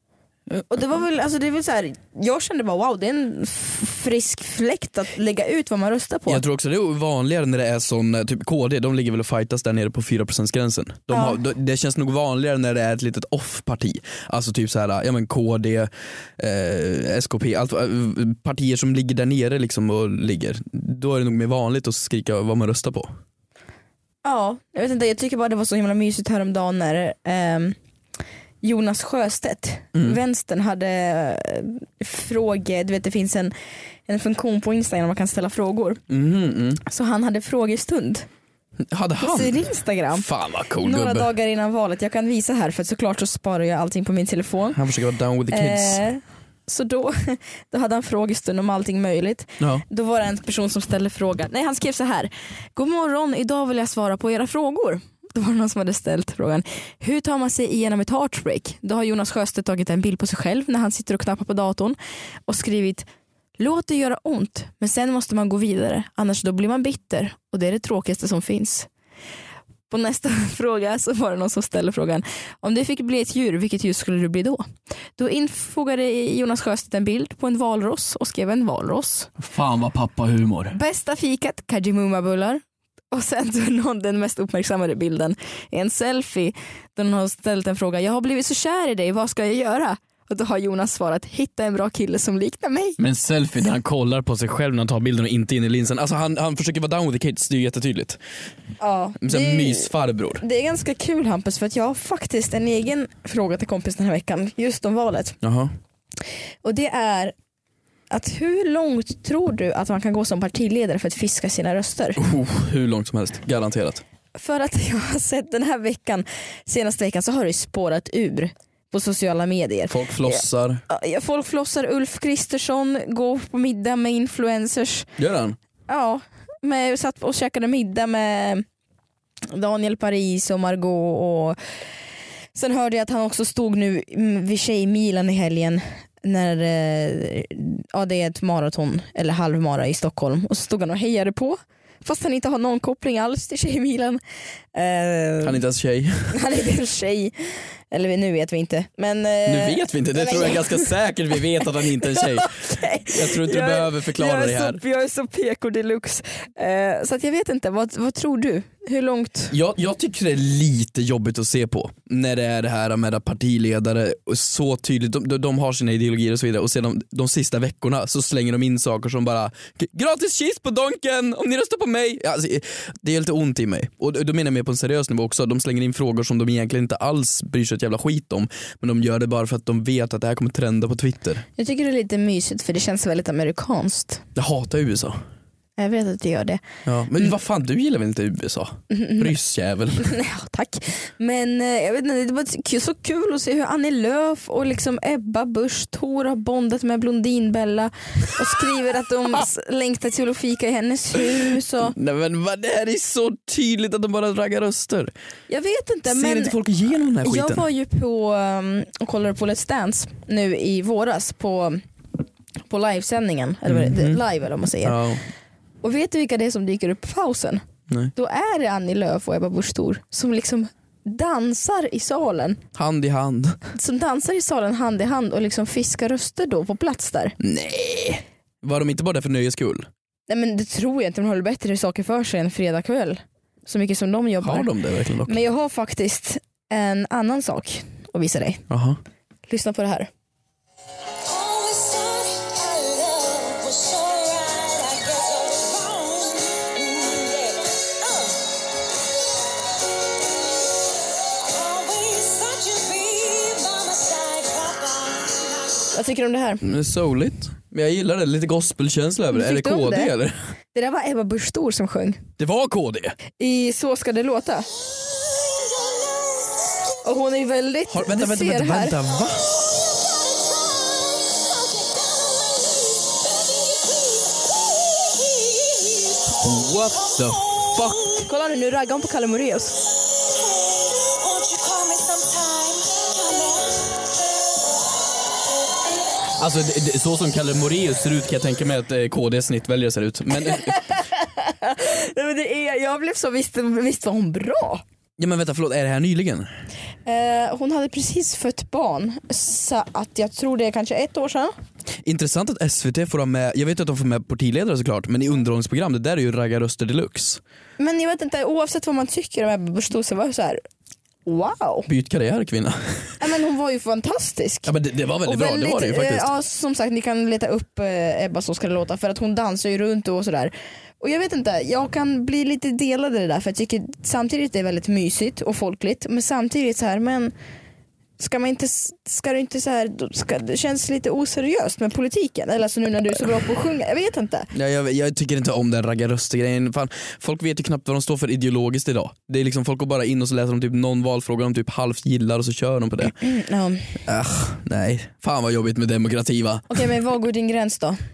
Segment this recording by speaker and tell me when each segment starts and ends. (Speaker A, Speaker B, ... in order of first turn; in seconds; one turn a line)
Speaker A: 0.7-6.4
Speaker B: 6.3-23.1
Speaker A: 11.1-11.4
Speaker A: 24.2-27.8
Speaker A: 28.6-33.5
Speaker B: 29.9-30.2
Speaker A: 34.1-36.0
Speaker B: 36.1-36.8
Speaker A: 36.8-38.3
Speaker B: 38.8-41.3
Speaker A: 39.2-40.3
Speaker A: 40.8-44.8
Speaker B: 44.7-46.0
Speaker A: 45.5-68.9
Speaker A: 69.9-74.7
Speaker A: 75.2-79.3
Speaker B: 79.4-80.8
Speaker A: 80.7-93.0
Speaker B: 93.0-98.2
Speaker A: 98.8-105.4
Speaker B: 99.2-100.4
Speaker B: 105.4-105.7
Speaker A: 106.6-107.3
Speaker A: 108.1-112.2
Speaker B: 112.2-114.0
Speaker A: 114.3-125.1
Speaker B: 119.9-120.8
Speaker B: 125.2-125.6
Speaker A: 125.9-128.7
Speaker A: 129.5-131.6
Speaker A: 132.6-144.2
Speaker A: 144.7-145.6
Speaker B: 145.4-146.4
Speaker A: 146.3-150.9
Speaker B: 149.5-152.5
Speaker A: 151.9-159.5
Speaker B: 153.1-154.8
Speaker B: 159.5-181.4
Speaker A: 181.6-184.2
Speaker B: 184.3-185.2
Speaker A: 185.8-186.6
Speaker B: 186.9-190.1
Speaker A: 188.9-189.3
Speaker A: 190.0-201.9
Speaker B: 201.8-205.1
Speaker A: 205.5-206.6
Speaker B: 206.1-207.7
Speaker A: 207.2-211.8
Speaker A: 212.7-215.0
Speaker B: 213.7-214.2
Speaker B: 214.8-215.2
Speaker A: 215.8-217.6
Speaker A: 218.2-222.6
Speaker B: 222.8-223.6
Speaker A: 223.7-227.4
Speaker B: 227.4-229.9
Speaker A: 230.3-234.7
Speaker B: 234.4-235.4
Speaker A: 235.3-238.6
Speaker B: 238.7-239.0
Speaker A: 239.5-240.1
Speaker C: 241.2-248.5
Speaker C: 251.2-255.6
Speaker A: 255.9-256.6
Speaker B: 256.6-260.4
Speaker A: 259.3-260.1
Speaker A: 260.7-262.2
Speaker B: 262.4-263.2
Speaker A: 263.4-264.7
Speaker A: 267.0-269.0
Speaker B: 267.9-269.9
Speaker C: 271.3-276.4
Speaker B: 276.4-278.1
Speaker A: 278.2-279.8
Speaker C: 280.4-284.0
Speaker B: 286.4-290.8
Speaker A: 290.5-294.8
Speaker B: 295.2-296.5
Speaker A: 297.1-301.5
Speaker B: 302.1-307.4
Speaker A: 307.8-310.6
Speaker A: 311.3-311.9
Speaker B: 311.9-313.2
Speaker A: 313.2-314.7
Speaker B: 314.7-316.3
Speaker A: 315.2-327.3
Speaker A: 328.2-334.5
Speaker B: 334.5-343.2
Speaker A: 343.1-344.0
Speaker B: 344.1-346.8
Speaker A: 346.7-348.0